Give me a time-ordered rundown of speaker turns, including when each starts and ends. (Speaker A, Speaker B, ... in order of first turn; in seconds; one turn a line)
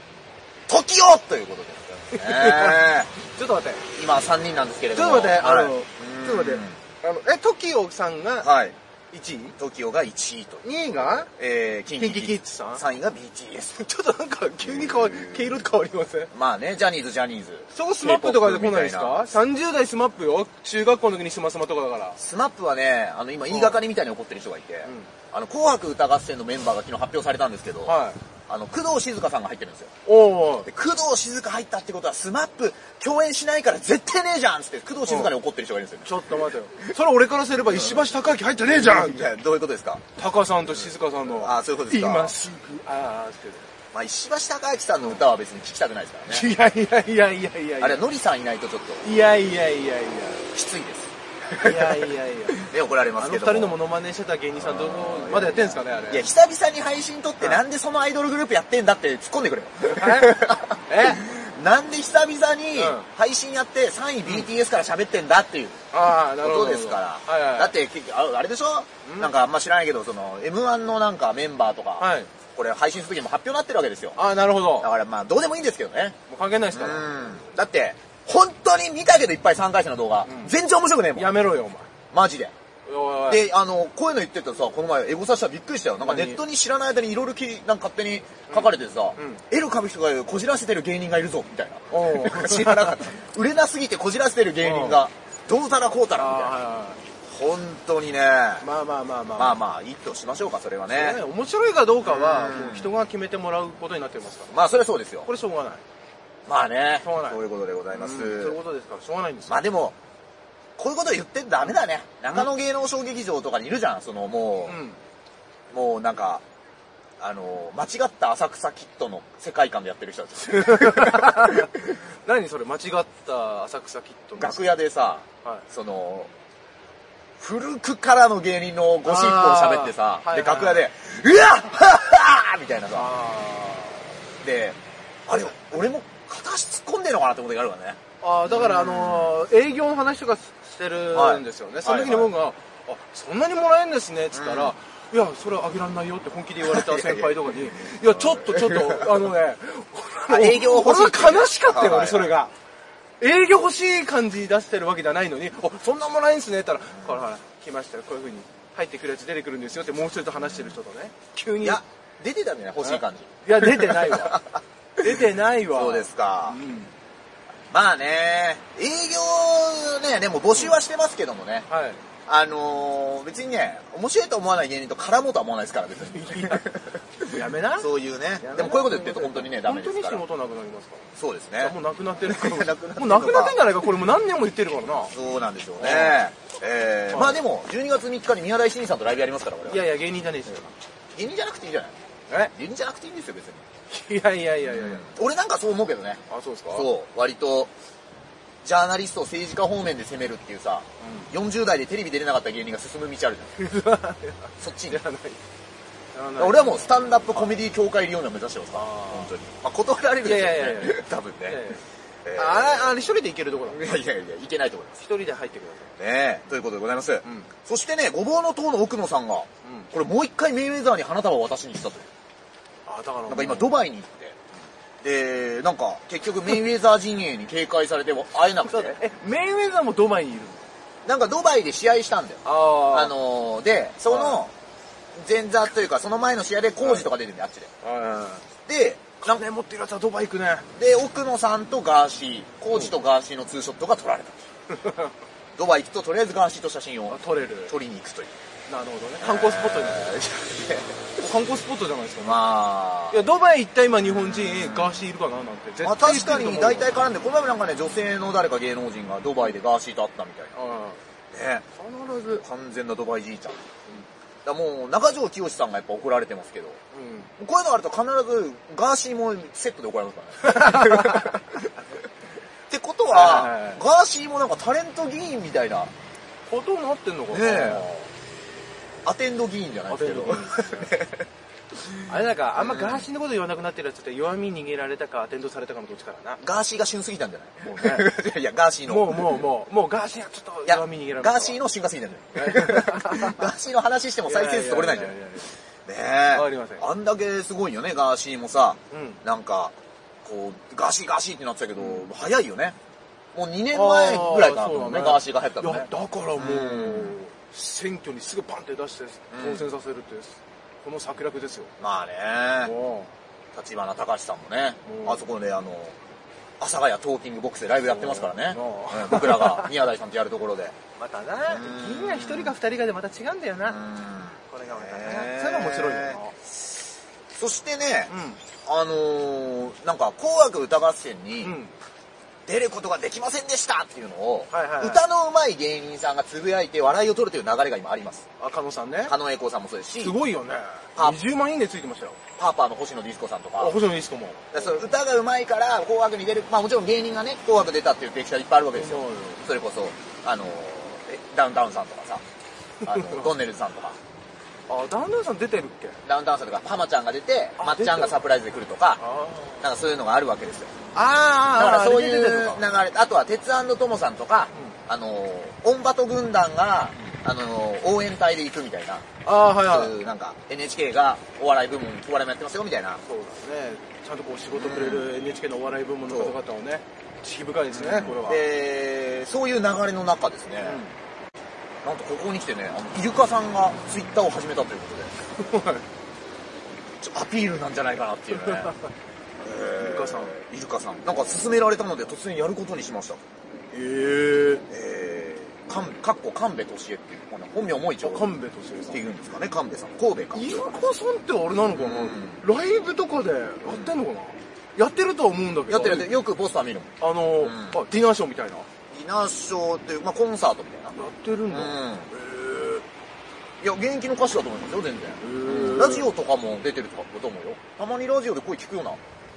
Speaker A: 0.7-3.1
Speaker B: 2.1-3.9
Speaker A: 4.0-6.8
Speaker B: 4.9-8.5
Speaker A: 8.4-8.8
Speaker B: 9.1-9.6
Speaker A: 9.6-10.7
Speaker B: 10.6-11.3
Speaker A: 11.2-13.9
Speaker B: 12.0-12.8
Speaker B: 13.8-16.3
Speaker A: 14.6-15.6
Speaker A: 16.3-19.3
Speaker B: 17.7-22.2
Speaker A: 22.2-29.9
Speaker B: 23.5-23.8
Speaker B: 24.9-25.1
Speaker B: 27.9-28.2
Speaker B: 30.1-30.7
Speaker A: 30.6-36.9
Speaker B: 35.1-35.3
Speaker B: 36.0-39.3
Speaker A: 37.7-40.0
Speaker B: 40.2-43.7
Speaker A: 40.8-42.4
Speaker A: 43.9-46.5
Speaker B: 46.3-48.0
Speaker A: 47.8-49.0
Speaker B: 49.0-50.4
Speaker A: 50.5-53.8
Speaker B: 51.5-56.3
Speaker A: 54.6-65.8
Speaker B: 59.9-61.2
Speaker B: 62.8-63.1
Speaker B: 65.9-67.8
Speaker A: 66.4-74.2
Speaker B: 69.0-69.3
Speaker B: 72.0-72.3
Speaker B: 74.2-74.9
Speaker A: 74.8-76.2
Speaker B: 76.3-77.2
Speaker A: 76.7-81.3
Speaker B: 80.3-80.5
Speaker B: 81.1-81.9
Speaker A: 82.1-82.5
Speaker B: 82.9-83.4
Speaker A: 83.3-96.5
Speaker B: 86.0-86.4
Speaker B: 88.5-89.4
Speaker B: 91.9-93.0
Speaker B: 94.6-95.0
Speaker B: 96.2-97.0
Speaker A: 97.3-98.7
Speaker B: 98.6-99.6
Speaker A: 99.4-101.2
Speaker B: 100.9-104.5
Speaker A: 102.0-102.9
Speaker A: 104.5-105.3
Speaker B: 105.2-105.8
Speaker A: 106.5-108.6
Speaker B: 107.0-107.4
Speaker B: 107.9-109.7
Speaker A: 109.5-110.0
Speaker A: 110.8-114.8
Speaker B: 114.7-115.0
Speaker A: 115.7-116.4
Speaker A: 117.2-121.7
Speaker B: 120.5-124.6
Speaker A: 124.4-126.3
Speaker A: 127.4-133.1
Speaker B: 129.0-130.8
Speaker B: 132.9-134.1
Speaker A: 134.4-139.4
Speaker B: 138.2-152.5
Speaker A: 141.1-142.3
Speaker A: 144.3-144.8
Speaker A: 146.6-149.3
Speaker A: 150.3-152.4
Speaker B: 153.2-161.8
Speaker A: 161.6-166.6
Speaker B: 162.8-164.4
Speaker B: 165.0-166.9
Speaker A: 167.7-171.7
Speaker B: 170.5-170.8
Speaker B: 171.7-172.0
Speaker A: 172.3-180.2
Speaker B: 176.1-176.8
Speaker B: 177.3-181.1
Speaker A: 181.2-183.6
Speaker B: 181.6-185.1
Speaker A: 185.1-189.9
Speaker B: 185.8-186.2
Speaker B: 187.1-187.4
Speaker B: 189.7-190.7
Speaker A: 191.1-193.7
Speaker B: 193.9-195.1
Speaker A: 194.7-196.2
Speaker B: 196.3-196.9
Speaker A: 196.7-197.7
Speaker A: 198.6-203.6
Speaker B: 201.0-201.3
Speaker B: 203.6-205.4
Speaker A: 204.6-205.0
Speaker B: 206.1-207.6
Speaker A: 206.4-211.7
Speaker B: 208.7-209.3
Speaker B: 210.2-214.0
Speaker A: 212.2-212.9
Speaker A: 213.7-215.0
Speaker B: 215.0-215.9
Speaker A: 216.0-222.1
Speaker B: 217.2-217.5
Speaker B: 219.6-219.9
Speaker B: 222.9-223.8
Speaker A: 223.3-224.4
Speaker A: 225.0-229.0
Speaker B: 228.6-230.7
Speaker A: 231.1-234.5
Speaker B: 232.4-233.2
Speaker B: 234.1-234.4
Speaker A: 235.2-237.7
Speaker B: 236.8-237.1
Speaker B: 237.8-238.5
Speaker A: 238.7-239.4
Speaker B: 239.2-240.7
Speaker A: 240.8-244.5
Speaker B: 244.7-245.1
Speaker A: 245.6-248.4
Speaker B: 247.1-247.8
Speaker B: 248.7-250.2
Speaker A: 249.2-251.1
Speaker B: 251.2-252.4
Speaker A: 252.2-253.3
Speaker B: 253.1-256.9
Speaker A: 254.0-255.0
Speaker A: 255.8-260.6
Speaker B: 260.6-261.0
Speaker A: 261.3-261.7
Speaker B: 261.8-262.4
Speaker A: 262.3-263.7
Speaker A: 264.4-266.8
Speaker B: 266.9-267.3
Speaker A: 267.4-271.6
Speaker B: 270.5-271.4
Speaker A: 272.7-275.9
Speaker B: 273.1-273.8
Speaker B: 276.5-278.1
Speaker A: 277.3-277.9
Speaker A: 279.1-281.2
Speaker B: 279.9-281.0
Speaker B: 282.1-286.4
Speaker A: 282.6-283.0
Speaker A: 286.4-289.4
Speaker B: 287.6-288.1
Speaker B: 288.9-291.6
Speaker A: 290.7-295.2
Speaker B: 292.4-293.5
Speaker B: 294.2-295.5
Speaker A: 295.9-302.8
Speaker B: 296.3-296.9
Speaker B: 298.9-299.2
Speaker B: 301.8-302.1
Speaker A: 303.3-307.2
Speaker B: 303.7-311.7
Speaker A: 309.3-309.7
Speaker A: 311.8-312.7
Speaker B: 312.6-313.1
Speaker A: 313.5-316.0
Speaker B: 314.9-315.3
Speaker A: 316.6-320.8
Speaker B: 317.9-319.7
Speaker B: 321.0-323.8
Speaker A: 321.5-322.5
Speaker A: 323.7-326.2
Speaker B: 324.5-326.4
Speaker A: 327.4-328.1
Speaker B: 328.1-328.4
Speaker A: 328.6-331.6
Speaker B: 331.4-331.7
Speaker A: 332.5-338.2
Speaker B: 334.5-335.0
Speaker B: 338.4-339.2
Speaker A: 339.1-340.2
Speaker B: 340.0-342.2
Speaker A: 342.4-343.8
Speaker B: 343.6-344.9
Speaker A: 344.5-352.2
Speaker B: 348.7-349.4
Speaker B: 352.8-353.3
Speaker A: 352.9-354.0
Speaker B: 354.7-356.0
Speaker A: 356.1-359.0
Speaker B: 357.6-358.2
Speaker B: 359.0-359.7
Speaker A: 359.6-360.8
Speaker B: 360.9-362.6
Speaker A: 361.5-373.0
Speaker B: 369.2-370.0
Speaker B: 373.0-378.5
Speaker A: 374.5-375.1
Speaker A: 376.1-376.4
Speaker A: 377.7-380.8
Speaker B: 380.6-380.9
Speaker A: 381.8-385.1
Speaker B: 385.4-385.9
Speaker A: 387.0-388.8
Speaker B: 388.3-388.8
Speaker A: 389.4-393.2
Speaker B: 389.7-390.4
Speaker B: 393.7-394.6
Speaker A: 394.7-400.7
Speaker B: 398.0-399.0
Speaker B: 400.3-406.1
Speaker A: 401.7-402.4
Speaker A: 403.6-404.0
Speaker A: 405.7-407.8
Speaker B: 407.0-408.7
Speaker A: 408.9-411.0
Speaker B: 410.9-412.9
Speaker A: 411.5-412.1
Speaker A: 413.6-419.0
Speaker B: 415.2-416.1